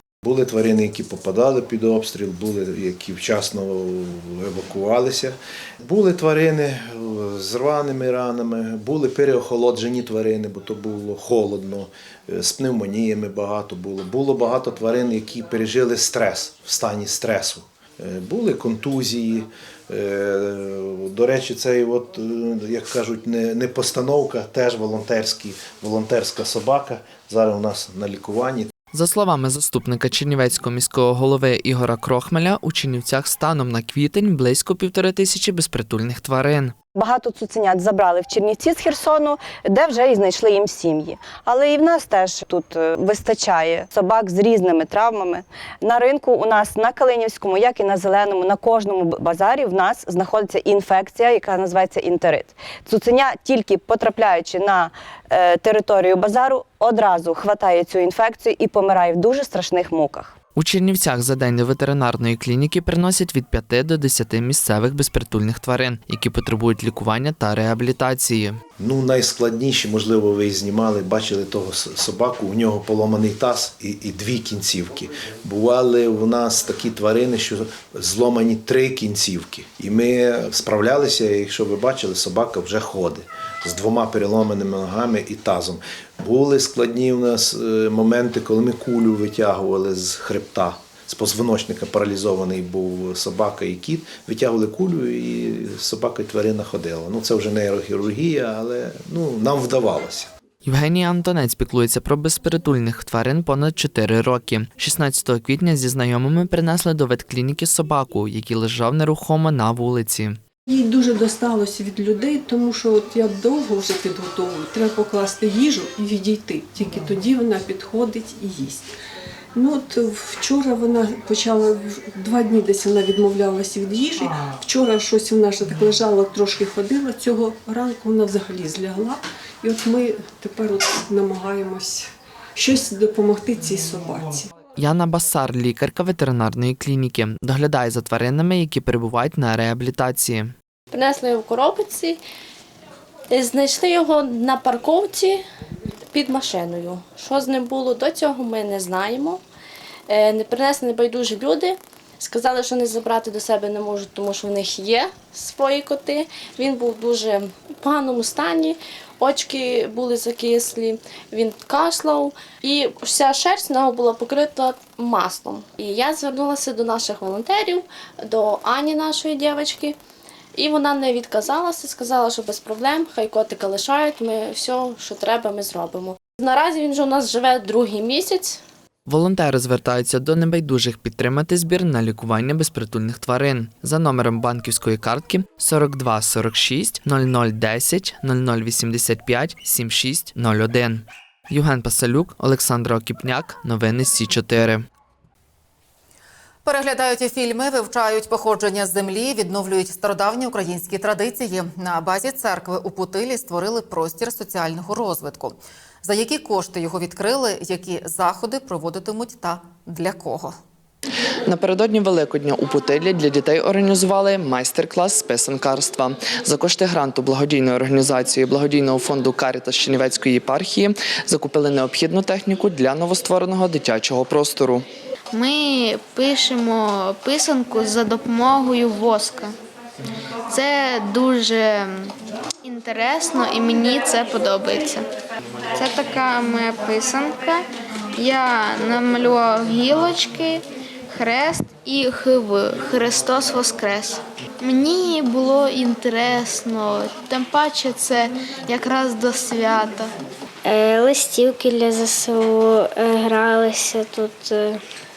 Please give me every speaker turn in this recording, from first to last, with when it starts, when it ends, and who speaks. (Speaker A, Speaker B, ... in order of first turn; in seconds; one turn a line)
Speaker A: 0.2-28.7
Speaker B: 28.9-36.7
Speaker C: 37.0-60.3
Speaker B: 60.6-68.6
Speaker A: 68.8-100.3
Speaker B: 100.6-110.4
Speaker D: 110.7-118.9
Speaker D: 119.5-134.5
Speaker B: 134.8-140.5
Speaker E: 140.9-142.2
Speaker E: 143.3-145.4
Speaker E: 146.1-149.4
Speaker E: 150.1-169.9
Speaker E: 170.5-178.6
Speaker B: 179.1-194.8
Speaker F: 196.6-210.5
Speaker B: 211.4-224.8
Speaker G: 225.3-229.5
Speaker G: 230.5-232.1
Speaker G: 232.6-235.1
Speaker G: 235.8-237.6
Speaker G: 238.2-250.1
Speaker H: 250.6-254.8